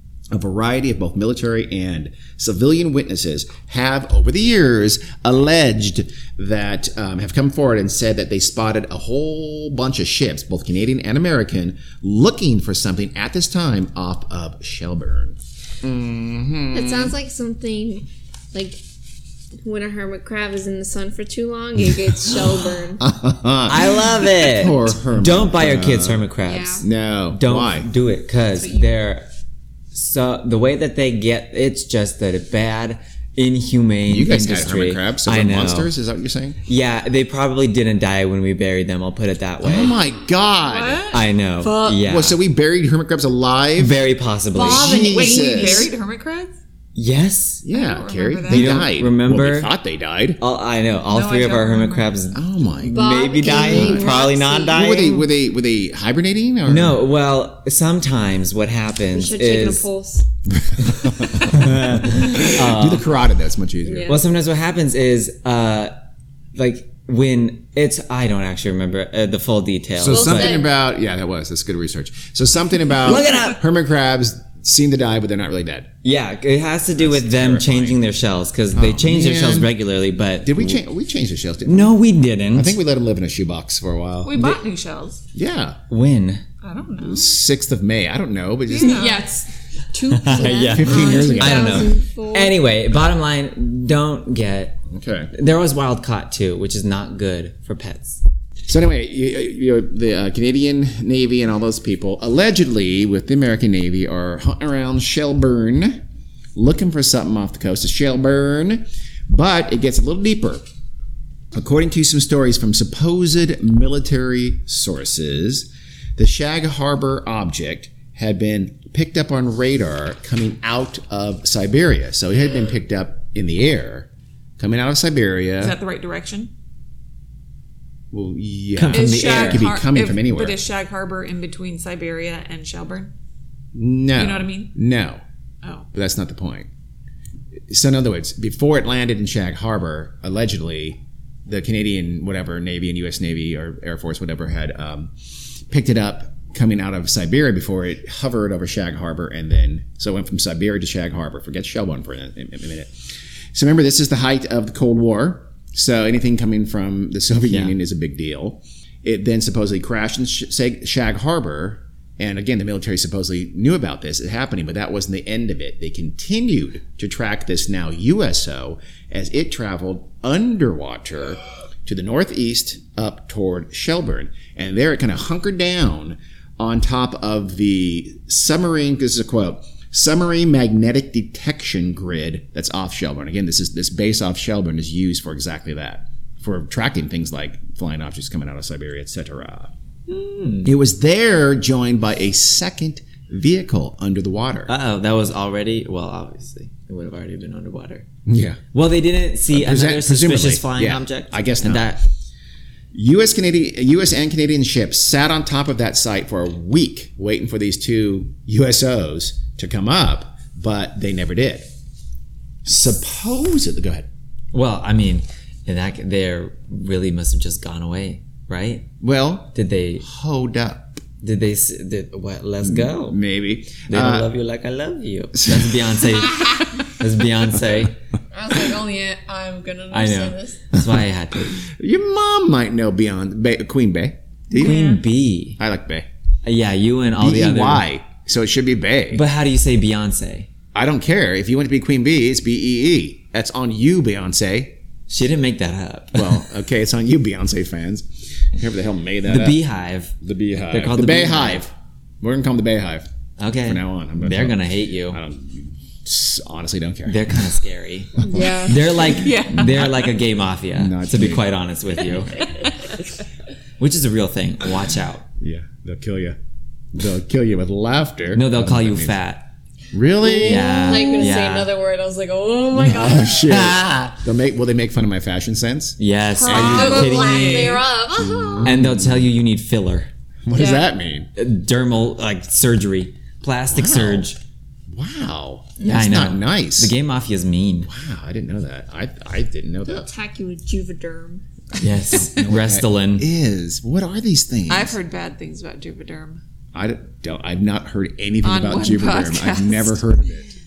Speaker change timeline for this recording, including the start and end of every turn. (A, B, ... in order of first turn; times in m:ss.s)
0:00.3-0:17.1 A
0:16.7-0:18.8 B
0:19.6-0:23.0 B
0:22.1-0:26.2 A
0:23.7-0:29.3 C
0:26.4-0:26.8 B
0:26.8-0:27.9 A
0:28.6-0:28.9 B
0:29.9-0:35.9 C
0:34.1-0:36.6 A
0:36.6-0:40.0 C
0:39.6-0:41.1 A
0:40.6-0:41.2 D
0:41.1-0:42.4 C
0:41.6-0:42.0 B
0:41.9-0:44.0 A
0:43.8-0:44.9 C
0:44.6-0:45.9 B
0:44.6-0:46.5 D
0:44.6-0:45.9 A
0:46.9-0:47.6 C
0:47.6-0:50.4 A
0:47.7-0:48.8 D
0:48.5-0:49.7 C
0:50.4-0:55.3 C
0:51.1-0:52.1 D
0:52.3-0:54.2 A
0:52.9-0:54.8 B
0:54.7-0:57.0 A
0:56.7-0:59.8 C
0:59.1-1:00.3 B
1:00.6-1:04.2 A
1:01.2-1:03.0 C
1:03.8-1:04.2 B
1:04.0-1:05.9 C
1:06.5-1:10.6 C
1:10.0-1:15.9 A
1:10.1-1:10.7 B
1:13.0-1:13.6 C
1:16.0-1:20.8 C
1:17.0-1:18.0 A
1:18.7-1:19.7 A
1:20.4-1:22.0 A
1:21.6-1:22.8 C
1:22.5-1:24.5 A
1:24.2-1:25.2 D
1:25.3-1:25.8 A
1:25.9-1:26.4 C
1:26.6-1:27.3 D
1:27.0-1:29.1 A
1:28.7-1:29.3 D
1:28.8-1:32.6 B
1:30.1-1:34.8 C
1:30.2-1:31.3 D
1:30.5-1:31.9 A
1:34.9-1:35.3 A
1:35.3-1:38.2 C
1:38.7-1:46.0 A
1:46.5-1:50.6 A
1:51.5-2:04.1 A
2:04.6-2:05.8 A
2:05.6-2:06.5 D
2:08.1-2:10.6 A
2:08.8-2:09.6 C
2:08.9-2:13.1 D
2:13.7-2:15.2 A
2:14.1-2:14.7 D
2:15.9-2:16.7 A
2:17.7-2:25.1 A
2:25.7-2:33.0 A
2:33.5-3:09.7 A
2:37.5-2:37.7 C
3:10.1-3:10.7 C
3:10.6-3:14.7 A
3:14.7-3:18.0 C
3:18.2-3:18.6 A
3:18.7-3:22.0 C
3:19.5-3:22.0 A
3:22.9-3:31.7 A
3:32.6-3:34.1 A
3:34.5-3:38.9 C
3:39.0-3:41.0 A
3:39.5-3:40.0 C
3:41.2-3:43.2 C
3:42.6-3:44.3 A
3:43.9-3:48.0 C
3:45.3-3:45.8 A
3:46.2-3:46.6 B
3:48.3-3:50.6 B
3:49.9-3:51.6 C
3:51.5-3:55.0 A
3:54.5-3:55.6 C
3:54.6-3:55.0 D
3:55.6-3:56.1 A
3:56.4-3:57.8 C
3:57.2-3:59.2 A
3:59.1-4:00.5 C
4:00.7-4:04.8 A
4:05.1-4:06.4 C
4:06.1-4:09.6 A
4:09.3-4:10.1 C
4:10.2-4:13.1 A
4:10.7-4:11.6 C
4:13.4-4:15.2 C
4:13.6-4:17.4 A
4:17.1-4:22.5 C
4:18.2-4:18.8 B
4:18.2-4:18.5 A
4:19.0-4:20.1 D
4:20.7-4:21.4 A
4:23.8-4:25.2 C
4:25.4-4:26.4 A
4:26.9-4:29.2 A
4:28.3-4:29.5 C
4:29.9-4:31.0 A
4:30.2-4:33.6 B
4:30.4-4:31.7 C
4:32.8-4:37.1 A
4:33.4-4:34.2 C
4:36.0-4:37.8 C
4:36.4-4:37.8 D
4:36.5-4:38.7 B
4:38.2-4:39.2 A
4:38.6-4:40.1 C
4:40.4-4:41.3 A
4:40.5-4:40.9 B
4:41.4-4:44.4 C
4:43.7-4:44.3 A
4:44.9-4:46.9 A
4:45.8-4:47.9 C
4:47.9-4:50.1 A
4:49.9-4:51.4 B
4:51.8-4:53.3 C
4:52.1-4:55.0 A
4:54.7-4:56.4 D
4:56.7-5:00.5 A
4:58.4-5:00.0 D